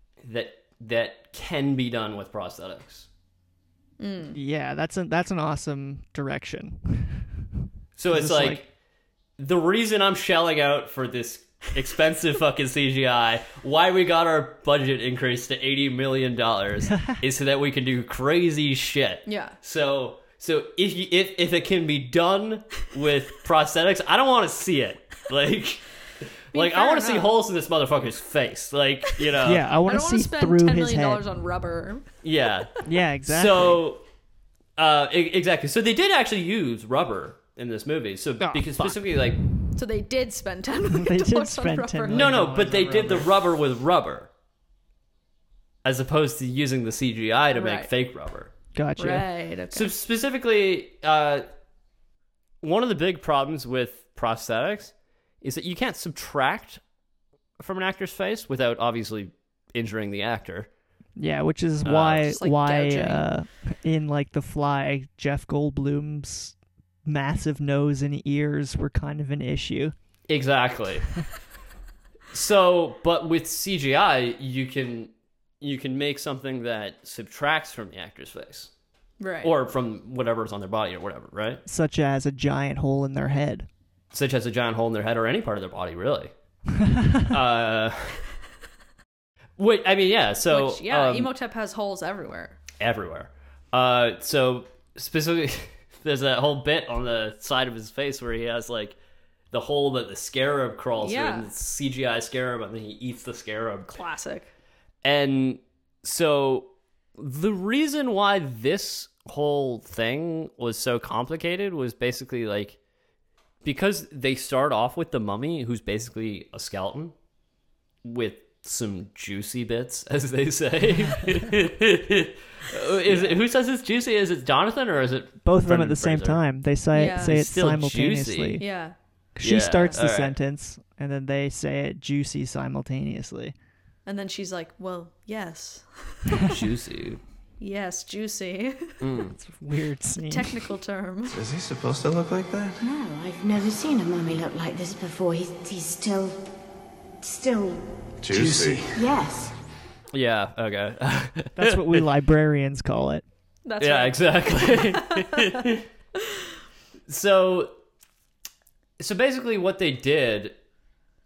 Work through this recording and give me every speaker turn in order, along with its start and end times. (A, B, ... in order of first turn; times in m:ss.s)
0:00.2-0:03.1 A
0:04.0-0:04.4 B
0:04.3-0:07.3 C
0:08.0-0:08.7 A
0:08.1-0:08.6 C
0:09.4-0:25.8 A
0:19.2-0:19.5 B
0:26.5-0:29.7 A
0:26.5-0:27.4 B
0:29.4-0:31.2 C
0:29.8-0:32.0 B
0:32.2-0:34.0 A
0:32.8-0:33.8 C
0:34.8-0:39.4 A
0:38.4-0:39.0 C
0:39.7-0:42.3 B
0:40.9-0:43.3 C
0:42.1-0:44.3 A
0:45.8-0:48.5 A
0:47.5-0:47.9 B
0:48.7-0:49.3 C
0:49.0-0:49.9 B
0:49.7-0:51.5 A
0:52.6-0:56.8 A
0:57.6-1:00.7 A
1:01.2-1:09.9 C
1:01.8-1:02.3 A
1:02.2-1:03.2 B
1:10.3-1:11.1 A
1:12.3-1:18.7 A
1:19.2-1:19.5 B
1:19.4-1:21.6 A
1:21.6-1:23.7 C
1:24.1-1:26.3 A
1:26.8-1:27.2 C
1:27.2-1:28.2 A
1:29.6-1:31.3 A
1:30.5-1:32.6 B
1:32.8-1:39.0 A
1:39.5-1:44.0 A
1:41.0-1:41.5 B
1:43.9-1:44.5 B
1:45.0-1:52.8 A
1:53.6-1:57.1 A
1:58.0-2:06.4 A
2:03.1-2:03.4 C
2:05.4-2:08.6 C
2:06.9-2:07.3 B
2:07.0-2:08.6 A
2:08.6-2:08.9 B
2:09.4-2:13.5 C
2:09.4-2:10.3 A
2:14.0-2:16.5 B
2:16.5-2:17.2 A
2:17.6-2:19.0 B
2:19.0-2:19.4 A
2:19.4-2:20.6 C
2:20.3-2:21.4 B
2:21.3-2:22.8 D
2:22.8-2:26.4 E
2:27.2-2:27.9 E
2:28.2-2:29.0 D
2:28.3-2:28.8 A
2:28.9-2:29.5 E
2:30.1-2:32.0 A
2:31.6-2:33.2 C
2:33.6-2:35.6 B
2:33.8-2:35.8 A
2:37.1-2:37.7 A
2:39.0-2:40.5 A